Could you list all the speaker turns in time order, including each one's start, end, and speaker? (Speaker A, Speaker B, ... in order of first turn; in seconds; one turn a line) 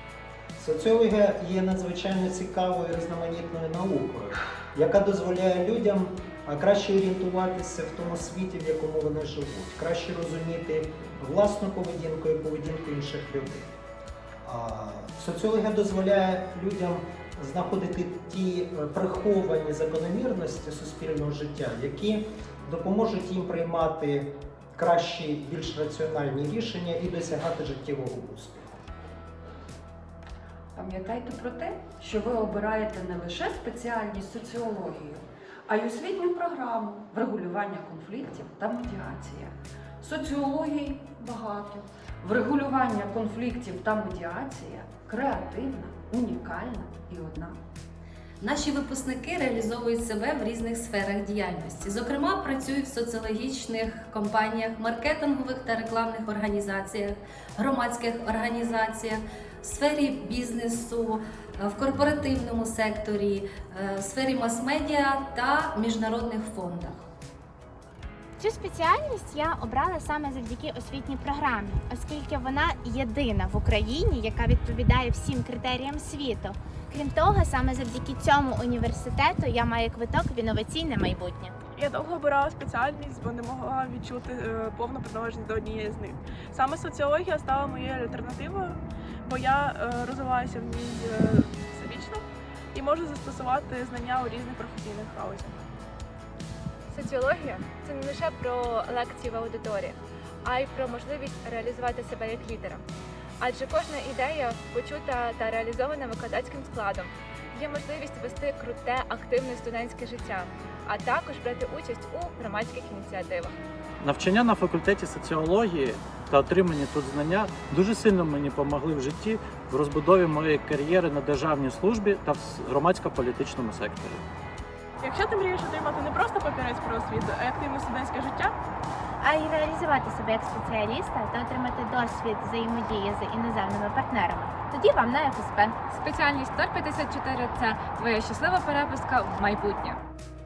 Speaker A: 0.6-13.7
Speaker A: 14.4-28.7
Speaker B: 30.8-47.6
Speaker C: 48.4-67.0
Speaker D: 68.4-81.5
Speaker E: 81.8-92.2
Speaker E: 92.7-95.6
Speaker F: 96.9-102.8
Speaker F: 103.4-113.6
Speaker G: 114.0-124.2
Speaker E: 125.0-128.5
Speaker D: 129.2-135.8
Speaker F: 135.9-140.0